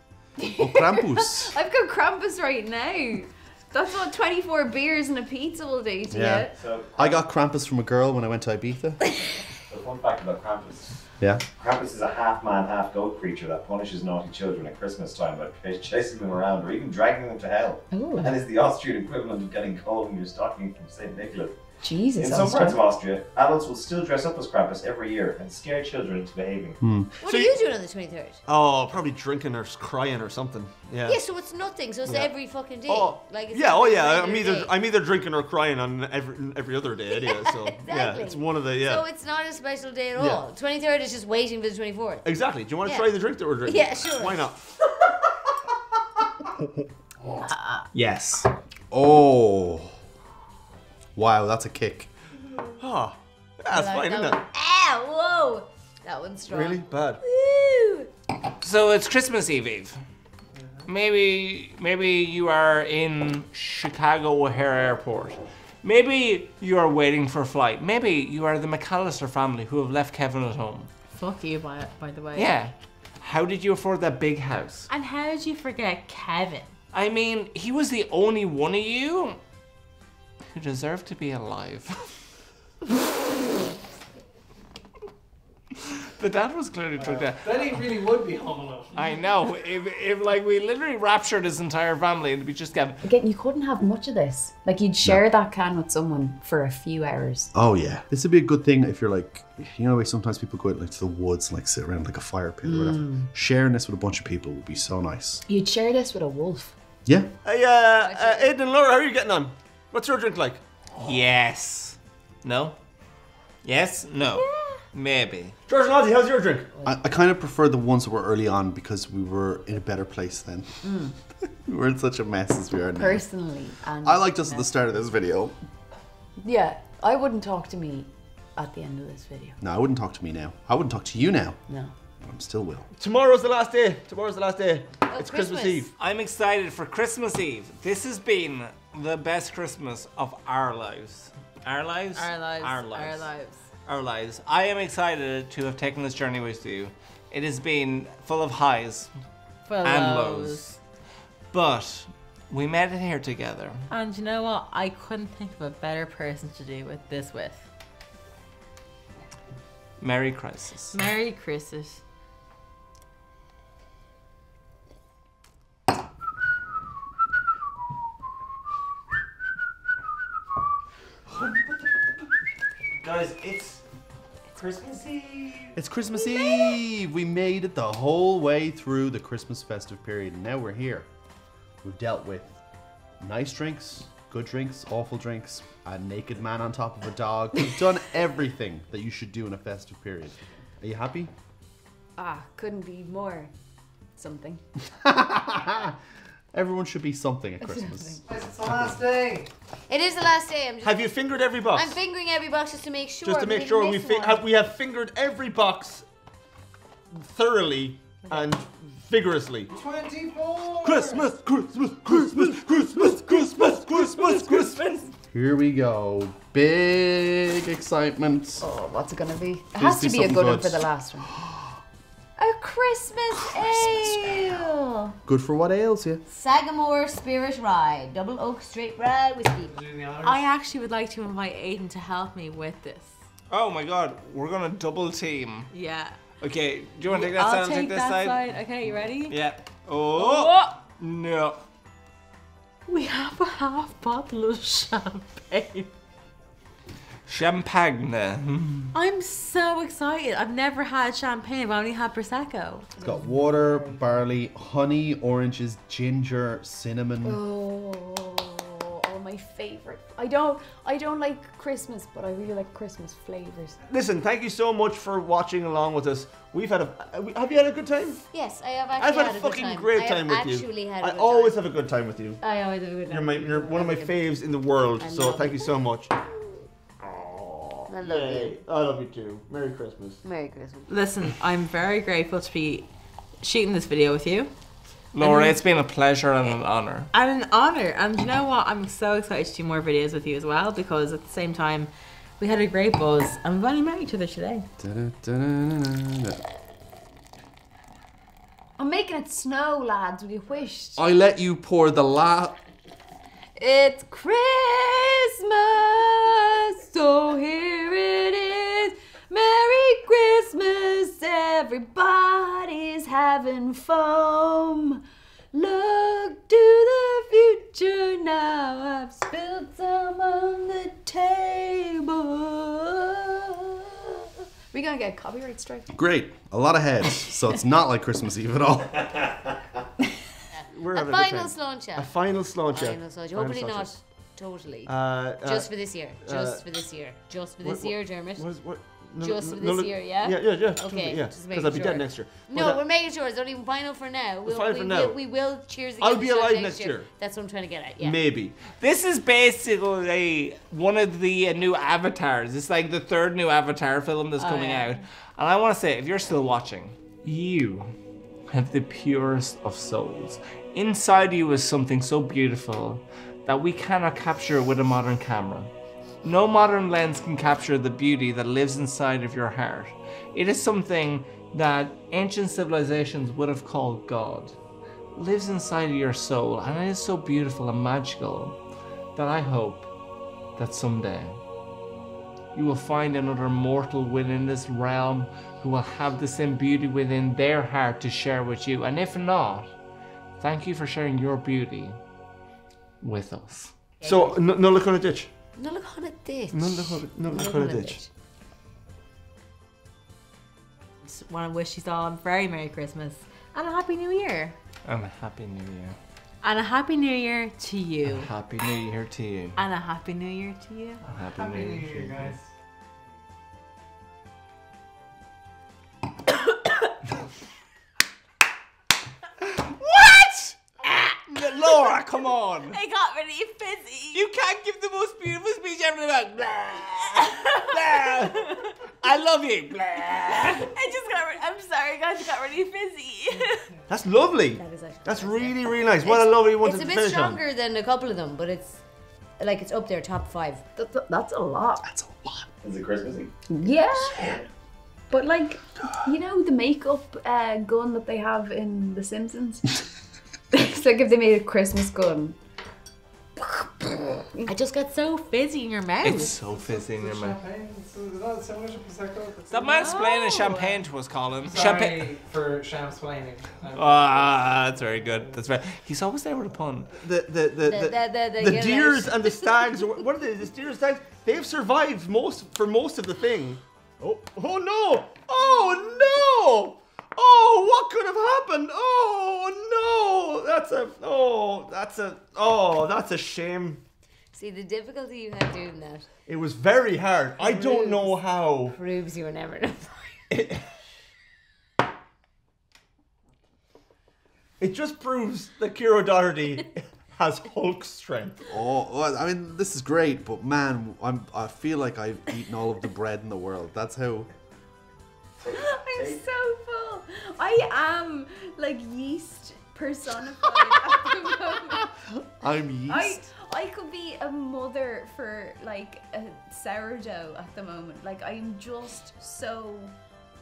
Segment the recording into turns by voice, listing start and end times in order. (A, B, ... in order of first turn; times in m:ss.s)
0:00.4-0:06.5 A
0:00.6-0:01.5 B
0:06.1-0:09.0 B
0:06.5-0:07.2 C
0:09.7-0:11.0 C
0:11.2-0:11.4 B
0:11.6-0:21.6 C
0:17.9-0:18.4 A
0:21.8-0:22.9 A
0:22.2-0:26.8 C
0:26.8-0:27.1 B
0:27.2-0:28.4 D
0:27.2-0:27.6 E
0:28.5-0:31.2 E
0:31.0-0:34.7 D
0:32.0-0:32.3 E
0:32.8-0:39.0 E
0:37.1-0:42.2 D
0:40.2-0:40.4 E
0:42.2-0:44.6 E
0:43.6-0:44.6 D
0:47.5-0:47.8 A
0:47.9-0:48.4 F
0:48.9-0:50.0 B
0:51.1-0:52.1 B
0:52.8-0:54.4 E
0:53.7-0:58.1 D
0:56.5-0:57.2 E
0:58.6-1:00.0 F
1:00.8-1:10.9 F
1:11.1-1:12.5 G
1:12.3-1:14.9 F
1:14.9-1:16.7 G
1:16.9-1:19.4 F
1:20.5-1:22.2 F
1:25.8-1:27.8 F
1:27.0-1:29.2 H
1:28.9-1:33.0 F
1:33.0-1:37.5 A
1:37.5-1:45.4 B
1:42.6-1:43.3 A
1:45.5-1:46.7 A
1:47.0-1:47.3 B
1:47.4-1:50.6 E
1:48.0-1:48.5 D
1:51.0-1:52.8 F
1:53.6-1:55.6 F
1:55.7-1:56.7 E
1:56.8-2:00.8 B
2:00.8-2:01.1 A
2:01.6-2:03.2 B
2:02.9-2:04.7 A
2:04.0-2:05.6 B
2:06.4-2:09.6 A
2:09.6-2:11.6 B
2:12.2-2:12.9 B
2:13.0-2:15.9 E
2:15.1-2:15.9 D
2:16.0-2:23.3 F
2:22.1-2:23.6 G
2:23.8-2:29.1 F
2:29.6-2:30.7 G
2:29.8-2:30.8 F
2:31.5-2:33.8 F
2:33.9-2:37.7 G
2:40.0-2:41.0 F
2:40.9-2:42.0 G
2:53.0-2:53.8 C
2:54.5-2:55.8 C
2:55.7-3:01.1 B
3:01.8-3:02.6 B
3:03.2-3:11.3 B
3:12.2-3:13.5 A
3:14.2-3:14.6 A
3:15.0-3:16.0 B
3:16.5-3:18.2 B
3:17.6-3:18.2 A
3:18.2-3:19.5 H
3:19.9-3:21.1 D
3:20.8-3:22.0 E
3:21.7-3:24.4 D
3:23.2-3:26.0 E
3:27.1-3:29.7 E
3:29.7-3:31.3 H
3:30.8-3:34.8 E
3:32.1-3:35.1 F
3:35.3-3:38.6 B
3:38.6-3:41.3 A
3:39.7-3:41.7 B
3:42.4-3:45.2 A
3:43.4-3:44.6 B
3:45.2-3:46.2 B
3:46.3-3:49.7 D
3:49.6-3:50.5 H
3:50.2-3:53.1 G
3:53.5-3:55.7 F
3:55.7-3:56.2 G
3:56.4-3:58.4 F
3:57.1-3:59.4 G
3:59.3-4:01.6 F
4:00.1-4:00.7 G
4:02.9-4:05.9 G
4:07.3-4:08.9 F
4:08.9-4:12.9 G
4:13.0-4:14.0 A
4:13.0-4:17.4 B
4:17.2-4:23.8 A
4:23.9-4:28.2 E
4:28.3-4:31.6 D
4:29.0-4:32.4 E
4:32.4-4:34.3 D
4:33.1-4:36.1 E
4:35.0-4:35.9 D
4:37.0-4:40.2 E
4:37.9-4:38.6 D
4:40.2-4:40.9 D
4:40.9-4:42.9 G
4:43.4-4:44.5 G
4:45.1-4:47.1 F
4:45.2-4:45.6 G
4:47.1-4:54.7 G
4:54.8-4:56.4 B
4:58.8-5:01.0 A
5:01.0-5:02.6 B
5:03.6-5:15.0 A
5:15.5-5:24.1 A
5:24.7-5:25.9 A
5:25.9-5:29.2 B
5:30.5-5:32.1 D
5:30.7-5:33.9 E
5:32.7-5:38.5 D
5:34.8-5:36.6 E
5:37.6-5:42.8 E
5:39.2-5:48.2 D
5:44.4-5:45.2 E
5:46.0-5:47.1 E
5:48.0-5:48.6 E
5:48.7-5:57.9 F
5:54.4-5:55.0 G
5:58.5-6:05.7 F
6:06.2-6:14.6 F
6:15.1-6:18.6 F
6:19.2-6:19.9 F
6:20.6-6:21.4 F
6:22.5-6:29.7 F
6:30.4-6:32.0 F
6:33.0-6:33.7 F
6:34.0-6:34.3 D
6:34.0-6:35.3 E
6:35.6-6:38.1 D
6:36.5-6:38.0 E
6:41.0-6:44.5 G
6:44.8-6:46.0 F
6:46.4-6:48.3 G
6:48.0-6:49.6 F
6:49.6-6:51.0 G
6:51.1-6:52.4 F
6:51.1-6:52.5 H
6:59.4-7:02.8 F
7:02.7-7:04.2 G
7:04.1-7:10.7 F
7:07.4-7:08.7 G
7:10.6-7:13.7 G
7:13.9-7:17.4 E
7:14.6-7:18.8 D
7:19.4-7:20.6 D
7:20.8-7:21.8 A
7:21.8-7:22.5 B
7:22.6-7:23.3 C
7:23.5-7:24.4 A
7:25.1-7:29.8 A
7:30.5-7:32.4 A
7:33.4-7:34.5 A
7:34.5-7:36.3 G
7:36.0-7:37.4 F
7:36.3-7:39.9 H
7:39.5-7:42.1 F
7:39.7-7:40.8 G
7:41.4-7:44.5 H
7:43.7-7:46.9 F
7:47.0-8:03.8 E
7:47.7-7:49.7 D
7:55.4-7:56.1 D
8:04.3-8:06.1 D
8:06.3-8:08.8 E
8:07.4-8:08.2 D
8:08.7-8:10.2 D
8:10.3-8:10.6 E
8:14.6-8:18.4 E
8:18.5-8:24.3 B
8:25.4-8:26.2 C
8:25.5-8:31.9 A
8:31.7-8:33.3 B
8:32.9-8:39.9 A